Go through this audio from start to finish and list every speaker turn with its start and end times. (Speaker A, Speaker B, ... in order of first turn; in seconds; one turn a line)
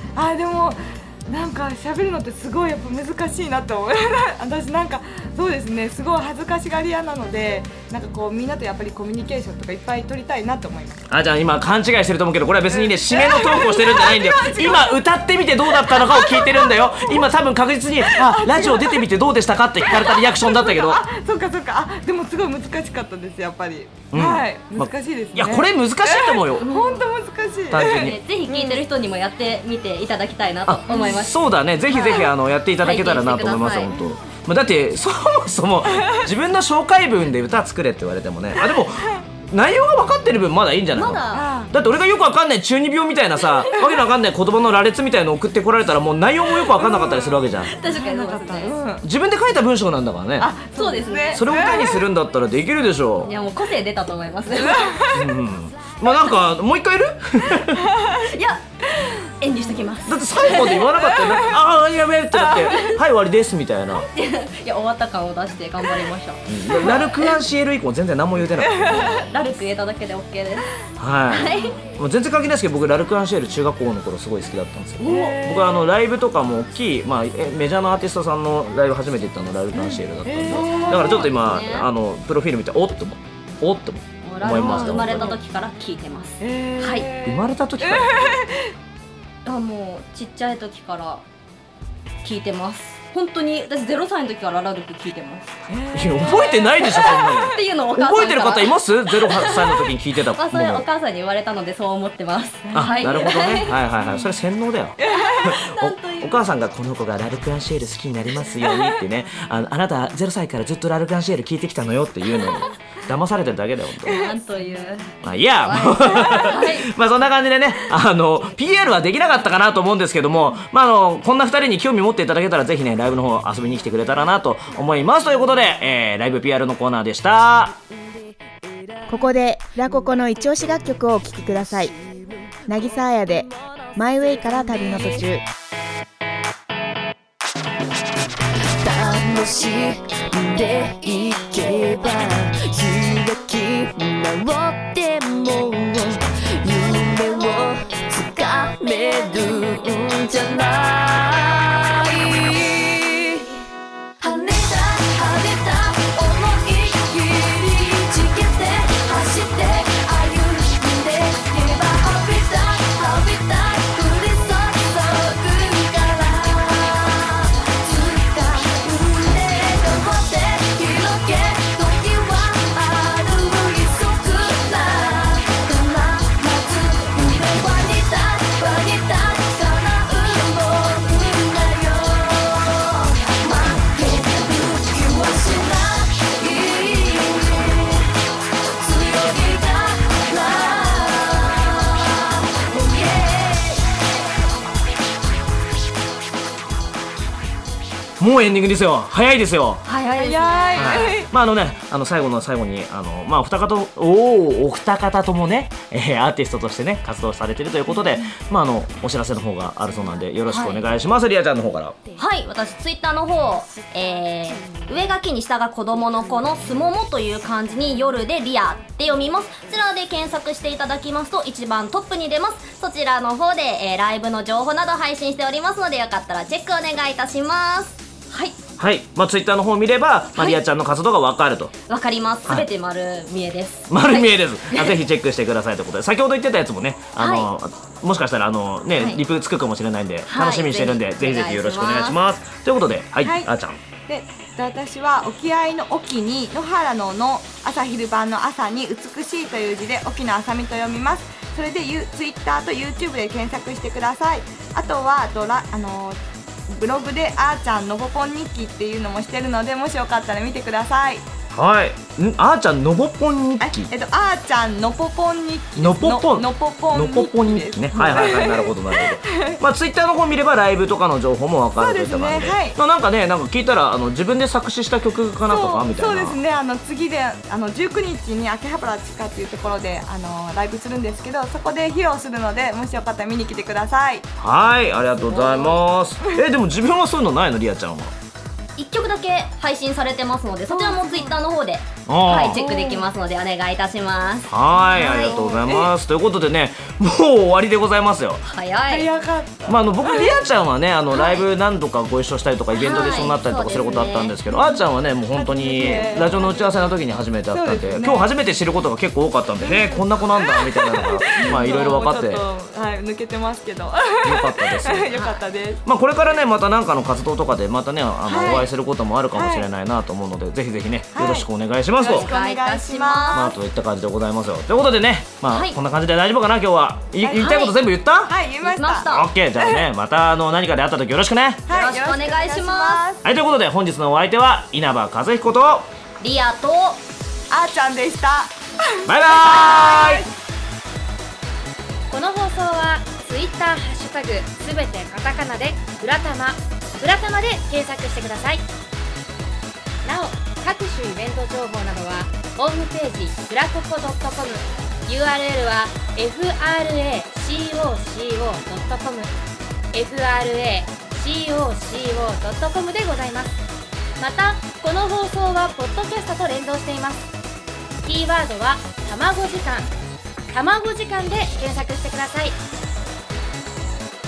Speaker A: 0.1-11.1
Speaker B: 11.1-21.0
Speaker A: 12.7-15.0
Speaker A: 15.8-17.2
Speaker A: 18.0-19.0
Speaker A: 19.9-28.8
Speaker B: 24.1-26.7
Speaker C: 26.6-27.0
Speaker B: 27.7-28.2
Speaker C: 27.8-32.3
Speaker B: 30.6-47.7
Speaker A: 30.9-31.1
Speaker C: 32.8-33.9
Speaker C: 40.9-41.5
Speaker A: 41.3-41.7
Speaker A: 46.7-49.0
Speaker C: 47.7-48.8
Speaker B: 49.0-50.5
Speaker A: 50.4-52.1
Speaker C: 50.7-51.4
Speaker B: 51.3-53.3
Speaker C: 53.2-55.0
Speaker A: 54.5-55.3
Speaker B: 55.1-57.9
Speaker A: 57.6-58.2
Speaker C: 58.2-60.8
Speaker B: 60.0-64.1
Speaker A: 60.8-61.5
Speaker C: 62.7-63.0
Speaker C: 64.0-67.0
Speaker B: 66.5-69.1
Speaker A: 68.6-69.2
Speaker C: 68.9-70.7
Speaker B: 71.0-85.4
Speaker C: 71.3-71.8
Speaker A: 71.4-71.7
Speaker C: 75.0-75.4
Speaker A: 75.0-75.9
Speaker A: 79.7-81.3
Speaker C: 80.5-81.9
Speaker C: 84.2-87.1
Speaker A: 84.5-85.4
Speaker A: 86.4-88.7
Speaker B: 87.2-88.4
Speaker C: 89.4-91.2
Speaker C: 92.2-95.5
Speaker A: 95.7-97.4
Speaker B: 95.9-100.8
Speaker C: 96.3-99.8
Speaker C: 100.3-103.8
Speaker A: 102.7-103.2
Speaker B: 102.7-114.3
Speaker A: 105.0-105.6
Speaker C: 105.0-106.4
Speaker C: 114.0-116.9
Speaker B: 115.2-127.8
Speaker D: 129.1-132.0
Speaker D: 132.7-135.4
Speaker E: 138.8-153.5
Speaker E: 154.2-188.0
Speaker E: 188.8-193.9
Speaker B: 198.2-199.8
Speaker C: 199.8-201.1
Speaker A: 200.1-201.3
Speaker B: 200.8-211.9
Speaker C: 210.5-210.8
Speaker C: 212.2-228.6
Speaker B: 228.8-231.7
Speaker C: 231.9-235.0
Speaker B: 233.9-243.8
Speaker C: 237.2-237.5
Speaker C: 239.0-239.2
Speaker C: 240.3-242.2
Speaker A: 243.2-243.5
Speaker A: 244.1-261.2
Speaker B: 261.5-263.9
Speaker A: 263.6-269.6
Speaker B: 265.8-276.4
Speaker C: 267.9-268.3
Speaker A: 271.8-272.8
Speaker A: 275.5-284.3
Speaker B: 284.4-288.1
Speaker C: 285.3-285.8
Speaker C: 288.8-295.6
Speaker A: 290.7-291.3
Speaker B: 292.1-292.6
Speaker A: 292.5-293.1
Speaker B: 294.5-298.4
Speaker A: 294.8-295.9
Speaker C: 298.5-299.1
Speaker A: 298.9-300.4
Speaker B: 299.7-312.4
Speaker C: 302.7-304.4
Speaker A: 304.5-306.9
Speaker A: 307.5-308.3
Speaker A: 309.6-315.8
Speaker C: 311.4-311.8
Speaker B: 314.2-315.1
Speaker C: 315.1-315.4
Speaker B: 315.9-322.3
Speaker C: 318.2-318.7
Speaker A: 319.3-319.7
Speaker A: 321.1-321.5
Speaker A: 322.0-323.5
Speaker C: 322.1-323.5
Speaker B: 323.3-328.3
Speaker C: 325.5-325.8
Speaker C: 327.2-327.7
Speaker A: 328.3-329.2
Speaker C: 328.6-329.3
Speaker B: 329.1-331.6
Speaker A: 331.7-333.2
Speaker C: 331.7-333.0
Speaker B: 333.2-335.9
Speaker C: 336.2-337.0
Speaker A: 337.5-340.3
Speaker B: 339.0-340.2
Speaker F: 342.1-348.6
Speaker F: 350.0-359.3
Speaker F: 359.9-363.5
Speaker F: 364.2-367.3
Speaker F: 368.0-369.9
Speaker F: 370.5-372.6